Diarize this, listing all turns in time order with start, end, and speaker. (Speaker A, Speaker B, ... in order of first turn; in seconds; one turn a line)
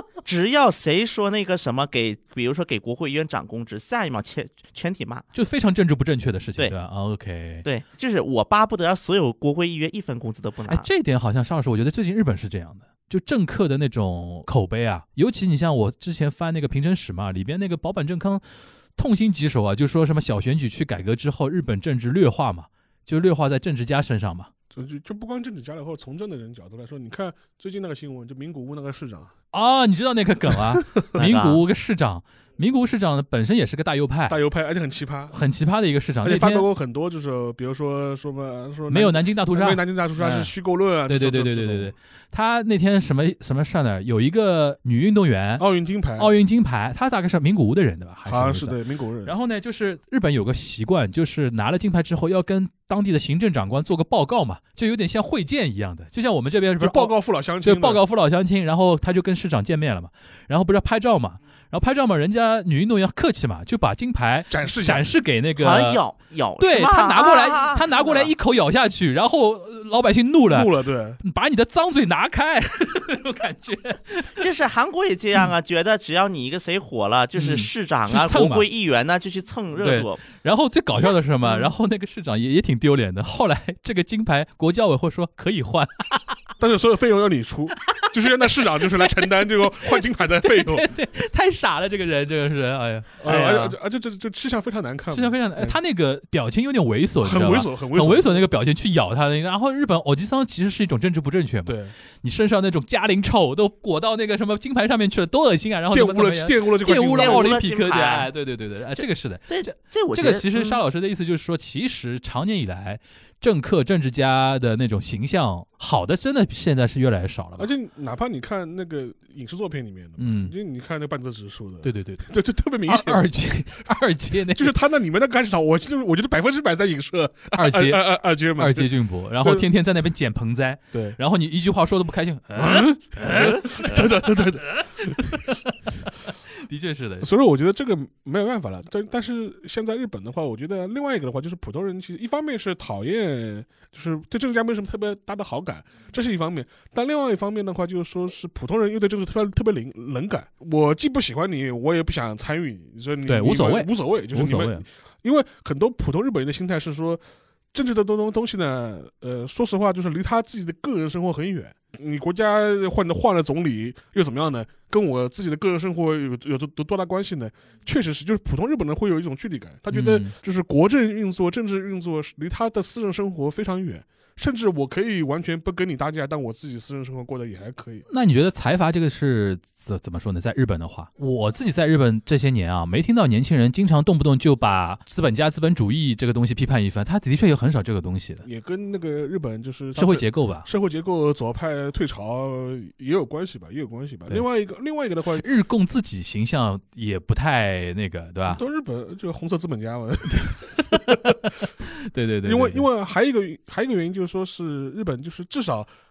Speaker A: 0.2-5.3
Speaker B: 5.3-7.7
Speaker A: 7.6-10.9
Speaker B: 10.7-18.4
Speaker B: 19.0-24.5
Speaker C: 24.7-29.3
Speaker B: 29.5-34.4
Speaker A: 31.1-31.6
Speaker C: 34.3-35.4
Speaker B: 35.3-36.7
Speaker C: 36.2-41.9
Speaker B: 38.9-40.5
Speaker B: 41.1-45.6
Speaker C: 45.6-46.3
Speaker B: 46.2-66.0
Speaker C: 48.3-49.3
Speaker C: 56.8-58.0
Speaker C: 64.5-65.1
Speaker A: 65.6-68.3
Speaker B: 66.6-74.5
Speaker C: 70.5-71.2
Speaker A: 74.4-80.2
Speaker B: 77.4-78.7
Speaker B: 79.8-86.4
Speaker C: 86.6-90.9
Speaker B: 87.9-88.1
Speaker B: 89.0-93.8
Speaker C: 93.2-95.8
Speaker B: 95.1-117.7
Speaker C: 97.2-98.5
Speaker C: 101.7-101.9
Speaker C: 105.9-107.6
Speaker A: 107.2-108.3
Speaker A: 109.0-110.8
Speaker C: 117.6-123.3
Speaker B: 120.2-120.5
Speaker B: 121.8-122.3
Speaker B: 122.9-124.7
Speaker C: 124.5-129.7
Speaker B: 127.5-137.3
Speaker C: 130.9-131.2
Speaker C: 132.6-135.4
Speaker C: 137.2-157.2
Speaker B: 153.3-154.9
Speaker C: 157.7-178.1
Speaker B: 169.9-170.4
Speaker B: 178.1-188.5
Speaker C: 188.4-195.5
Speaker B: 190.0-190.7
Speaker B: 195.3-198.6
Speaker C: 198.5-201.4
Speaker B: 200.3-202.8
Speaker C: 202.4-205.9